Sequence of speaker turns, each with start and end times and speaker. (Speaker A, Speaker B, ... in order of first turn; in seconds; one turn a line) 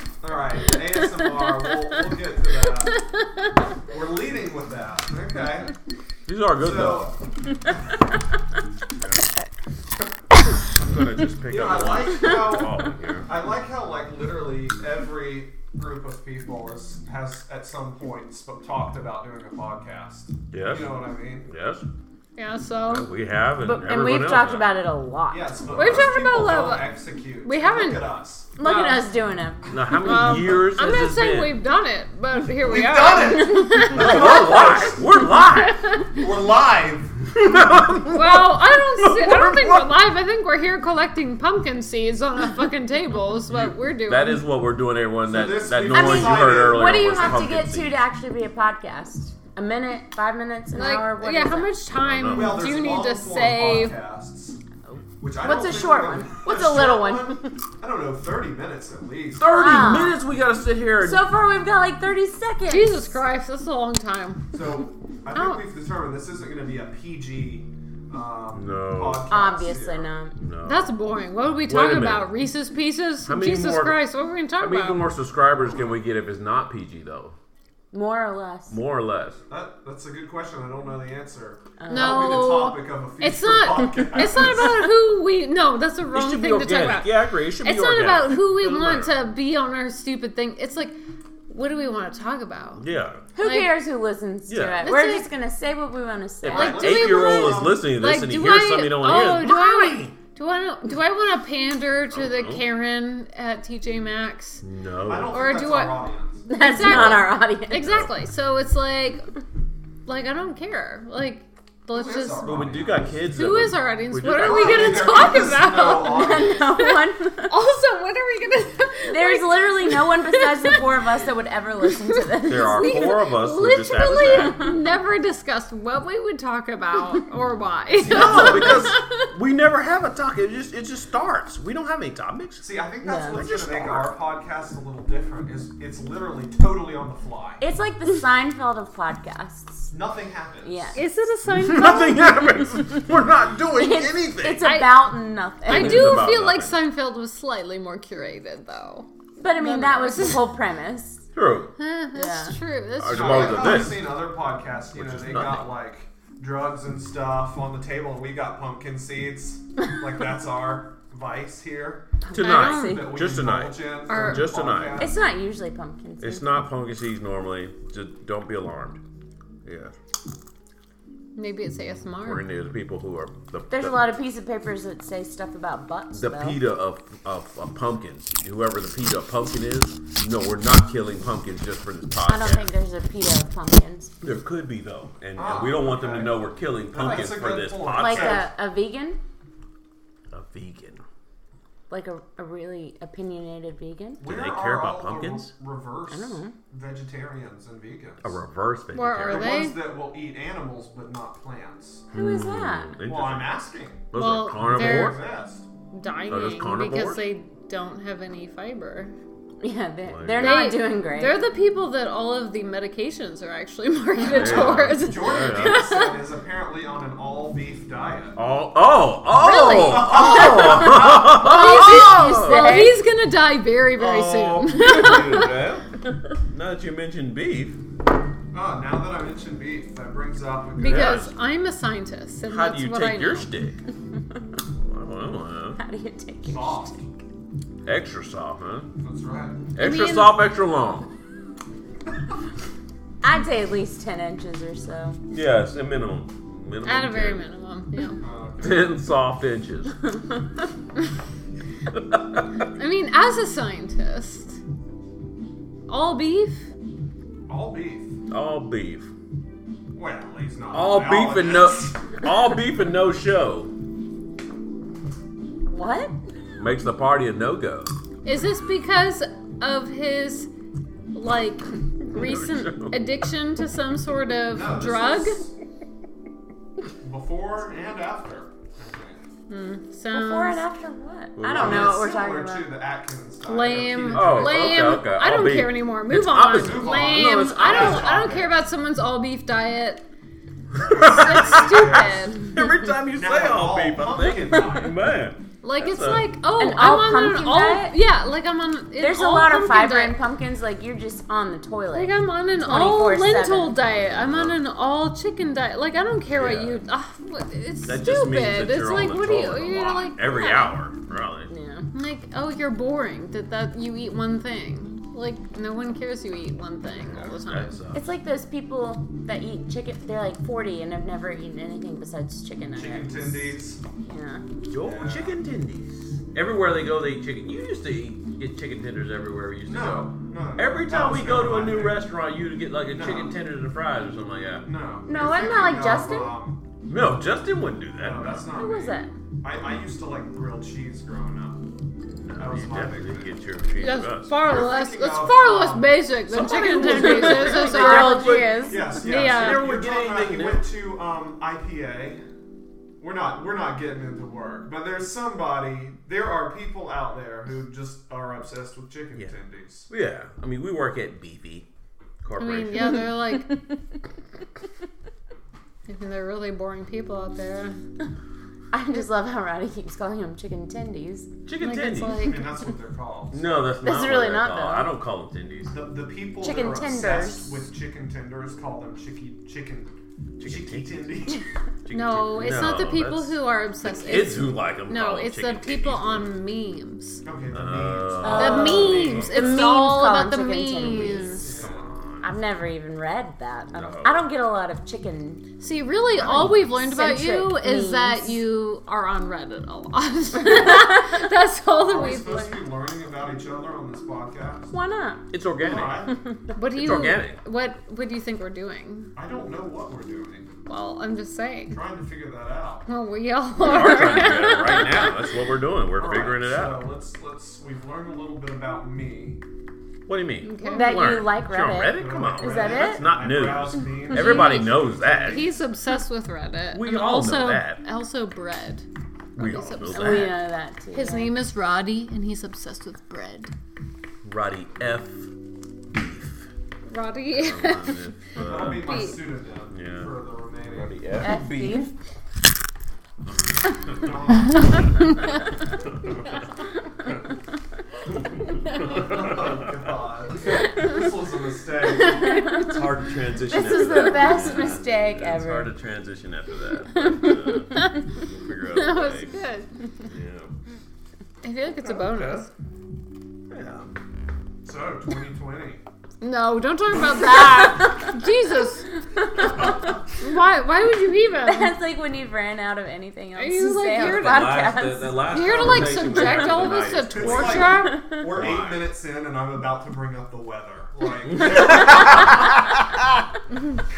Speaker A: 0.2-3.0
Speaker B: 1.1-1.9
Speaker B: 3.0-3.5
Speaker A: 3.8-5.7
Speaker C: 6.3-7.2
Speaker A: 6.6-7.2
Speaker C: 9.0-9.3
Speaker C: 10.7-13.3
Speaker A: 11.5-21.5
Speaker C: 20.5-21.9
Speaker B: 22.4-23.1
Speaker C: 22.9-24.8
Speaker D: 23.6-25.7
Speaker A: 25.3-28.5
Speaker B: 25.7-29.1
Speaker D: 28.6-29.6
Speaker C: 29.7-31.6
Speaker B: 30.0-34.7
Speaker A: 32.6-35.0
Speaker C: 33.8-35.9
Speaker D: 34.1-34.9
Speaker A: 36.1-37.3
Speaker C: 37.3-39.9
Speaker B: 38.1-44.4
Speaker C: 44.0-48.0
Speaker A: 45.3-47.5
Speaker D: 45.9-51.8
Speaker B: 50.7-54.0
Speaker C: 51.9-52.7
Speaker A: 52.3-54.6
Speaker A: 55.2-60.1
Speaker D: 55.4-57.5
Speaker C: 59.4-61.3
Speaker D: 59.5-60.2
Speaker D: 61.0-63.2
Speaker B: 62.7-64.5
Speaker A: 64.5-70.1
Speaker B: 65.3-65.7
Speaker C: 68.5-69.3
Speaker D: 69.3-70.4
Speaker C: 70.4-70.9
Speaker B: 70.7-75.1
Speaker C: 71.7-72.3
Speaker C: 73.3-74.0
Speaker C: 74.6-77.3
Speaker D: 77.9-78.8
Speaker C: 78.7-79.4
Speaker A: 79.5-84.9
Speaker D: 81.8-82.4
Speaker B: 81.9-91.0
Speaker C: 86.1-89.2
Speaker B: 91.5-92.8
Speaker C: 92.8-93.2
Speaker D: 93.3-97.2
Speaker B: 93.4-93.8
Speaker C: 94.5-94.9
Speaker B: 94.8-95.3
Speaker C: 96.4-100.1
Speaker B: 96.5-104.6
Speaker A: 96.5-97.8
Speaker C: 102.1-102.6
Speaker C: 104.6-105.3
Speaker A: 105.1-106.5
Speaker B: 105.3-109.3
Speaker D: 106.5-107.9
Speaker C: 106.8-107.2
Speaker C: 107.8-108.1
Speaker B: 110.1-112.5
Speaker A: 111.9-113.2
Speaker C: 112.4-115.5
Speaker B: 113.3-120.8
Speaker A: 114.3-116.7
Speaker D: 115.9-117.6
Speaker D: 119.1-123.2
Speaker B: 122.3-129.1
Speaker C: 122.4-124.7
Speaker D: 124.3-124.8
Speaker C: 128.0-132.7
Speaker A: 128.1-128.8
Speaker A: 132.6-137.6
Speaker D: 133.0-133.4
Speaker C: 133.2-134.1
Speaker D: 137.6-139.9
Speaker A: 139.9-141.0
Speaker D: 140.6-141.0
Speaker B: 140.9-142.4
Speaker C: 141.5-144.7
Speaker D: 143.7-146.2
Speaker B: 144.6-150.6
Speaker C: 145.7-146.8
Speaker D: 149.4-151.3
Speaker C: 151.3-151.7
Speaker B: 151.8-154.0
Speaker D: 152.1-152.6
Speaker C: 153.0-154.2
Speaker A: 153.0-162.1
Speaker C: 154.9-155.7
Speaker D: 162.2-163.1
Speaker C: 162.3-165.1
Speaker B: 162.4-163.1
Speaker A: 162.8-165.3
Speaker B: 164.1-164.6
Speaker D: 165.0-166.5
Speaker C: 166.2-169.0
Speaker C: 169.7-169.9
Speaker B: 171.3-172.4
Speaker C: 172.2-174.1
Speaker D: 173.7-176.6
Speaker C: 176.1-182.7
Speaker D: 182.3-184.1
Speaker C: 184.2-188.4
Speaker A: 185.3-188.5
Speaker D: 187.9-189.2
Speaker C: 190.3-191.0
Speaker D: 191.9-194.2
Speaker A: 194.2-198.3
Speaker C: 194.2-195.5
Speaker D: 196.1-196.6
Speaker C: 198.2-199.6
Speaker B: 198.9-199.8
Speaker A: 199.3-202.1
Speaker D: 202.1-202.9
Speaker C: 202.1-205.2
Speaker A: 203.1-205.7
Speaker B: 204.2-205.2
Speaker B: 205.9-209.1
Speaker C: 206.3-207.3
Speaker D: 209.6-211.4
Speaker C: 210.1-210.7
Speaker B: 210.4-216.2
Speaker A: 214.2-218.4
Speaker C: 214.2-216.0
Speaker C: 218.4-222.8
Speaker D: 219.4-223.0
Speaker A: 219.5-221.3
Speaker B: 220.9-225.6
Speaker C: 223.9-225.9
Speaker C: 226.5-227.8
Speaker A: 228.5-231.3
Speaker B: 230.8-233.5
Speaker C: 230.8-231.3
Speaker C: 232.5-233.8
Speaker C: 234.8-235.8
Speaker D: 235.8-236.9
Speaker A: 236.4-237.1
Speaker C: 237.8-238.9
Speaker A: 239.0-239.6
Speaker C: 239.8-241.1
Speaker B: 239.8-240.4
Speaker D: 243.2-245.2
Speaker C: 245.3-247.4
Speaker B: 246.8-248.2
Speaker A: 248.2-248.9
Speaker C: 248.6-250.0
Speaker C: 251.9-252.5
Speaker B: 252.7-254.6
Speaker B: 255.9-256.7
Speaker A: 257.5-258.2
Speaker C: 258.3-259.1
Speaker A: 259.9-262.0
Speaker C: 260.7-263.7
Speaker D: 265.7-266.2
Speaker C: 266.6-267.9
Speaker B: 268.2-270.5
Speaker B: 271.1-275.4
Speaker C: 272.1-273.0
Speaker A: 274.5-275.5
Speaker A: 277.0-279.2
Speaker B: 279.5-280.6
Speaker D: 280.1-282.8
Speaker C: 281.4-282.0
Speaker A: 281.5-284.9
Speaker B: 283.4-290.1
Speaker C: 284.1-288.2
Speaker A: 286.6-288.6
Speaker C: 290.7-296.3
Speaker A: 290.8-292.2
Speaker B: 290.9-292.6
Speaker A: 293.1-295.0
Speaker B: 295.6-300.2
Speaker D: 296.6-298.0
Speaker D: 299.0-303.8
Speaker B: 301.9-310.7
Speaker C: 303.9-304.6
Speaker C: 306.3-306.8
Speaker C: 307.9-311.5
Speaker D: 310.3-310.7
Speaker D: 311.5-311.9
Speaker B: 311.9-317.8
Speaker C: 317.0-318.1
Speaker D: 317.9-324.4
Speaker A: 322.8-323.8
Speaker C: 324.7-334.7
Speaker A: 324.8-325.4
Speaker A: 329.7-332.0
Speaker A: 332.9-333.4
Speaker A: 334.6-336.6
Speaker D: 335.1-336.3
Speaker C: 336.9-338.5
Speaker A: 338.0-341.6
Speaker D: 338.6-339.1
Speaker C: 342.2-344.4
Speaker A: 342.4-343.3
Speaker B: 343.8-348.4
Speaker A: 344.5-346.1
Speaker C: 346.3-350.7
Speaker D: 346.7-348.9
Speaker A: 348.7-352.2
Speaker B: 349.0-349.7
Speaker A: 353.0-359.9
Speaker C: 359.9-361.7
Speaker C: 362.2-363.1
Speaker B: 362.4-363.6
Speaker B: 365.9-367.8
Speaker D: 368.7-371.3
Speaker C: 371.4-372.3
Speaker B: 371.6-372.6
Speaker A: 372.1-373.8
Speaker C: 373.3-375.8
Speaker D: 373.8-374.9
Speaker A: 375.7-381.5
Speaker D: 376.4-377.6
Speaker C: 380.4-381.3
Speaker C: 381.8-386.3
Speaker B: 381.9-387.2
Speaker A: 387.2-389.4
Speaker C: 387.5-389.8
Speaker D: 388.2-391.4
Speaker B: 388.3-391.5
Speaker C: 390.8-392.3
Speaker A: 391.4-391.9
Speaker D: 392.2-395.5
Speaker C: 393.7-394.3
Speaker B: 395.6-402.6
Speaker D: 396.2-398.4
Speaker C: 396.2-396.7
Speaker D: 400.4-401.3
Speaker A: 401.8-404.7
Speaker D: 404.7-405.2
Speaker C: 405.3-406.1
Speaker A: 405.6-406.2
Speaker D: 406.1-406.5
Speaker B: 406.6-409.1
Speaker C: 406.7-407.4
Speaker A: 409.1-410.5
Speaker B: 410.7-411.8
Speaker A: 411.7-412.9
Speaker B: 412.9-415.3
Speaker C: 413.6-416.8
Speaker A: 415.9-419.4
Speaker C: 420.1-425.6
Speaker B: 420.4-421.2
Speaker D: 420.6-423.1
Speaker A: 421.9-425.6
Speaker B: 424.1-428.9
Speaker C: 426.7-427.8
Speaker C: 429.4-430.4
Speaker B: 429.4-430.4
Speaker D: 429.9-431.3
Speaker B: 430.9-433.5
Speaker C: 434.2-435.3
Speaker C: 435.9-436.5
Speaker B: 436.9-438.0
Speaker C: 437.3-439.1
Speaker A: 438.4-440.9
Speaker B: 438.7-439.2
Speaker C: 439.7-440.1
Speaker C: 440.6-441.9
Speaker D: 441.2-441.9
Speaker C: 443.8-444.1
Speaker A: 443.9-445.0
Speaker C: 446.0-446.3
Speaker C: 448.2-449.7
Speaker A: 448.8-452.5
Speaker D: 452.1-452.7
Speaker C: 452.5-459.4
Speaker D: 453.5-455.7
Speaker B: 453.8-454.6
Speaker B: 456.9-458.1
Speaker B: 458.7-459.7
Speaker C: 460.1-460.5
Speaker B: 461.4-462.5
Speaker C: 461.8-462.5
Speaker C: 463.5-463.9
Speaker A: 464.6-465.8
Speaker B: 466.2-468.9
Speaker D: 467.6-468.1
Speaker D: 469.1-470.0
Speaker B: 470.2-471.8
Speaker D: 471.4-475.4
Speaker B: 473.4-474.5
Speaker C: 474.0-478.9
Speaker B: 475.2-478.1
Speaker A: 475.8-476.4
Speaker A: 477.1-482.5
Speaker D: 477.7-478.3
Speaker C: 481.3-483.2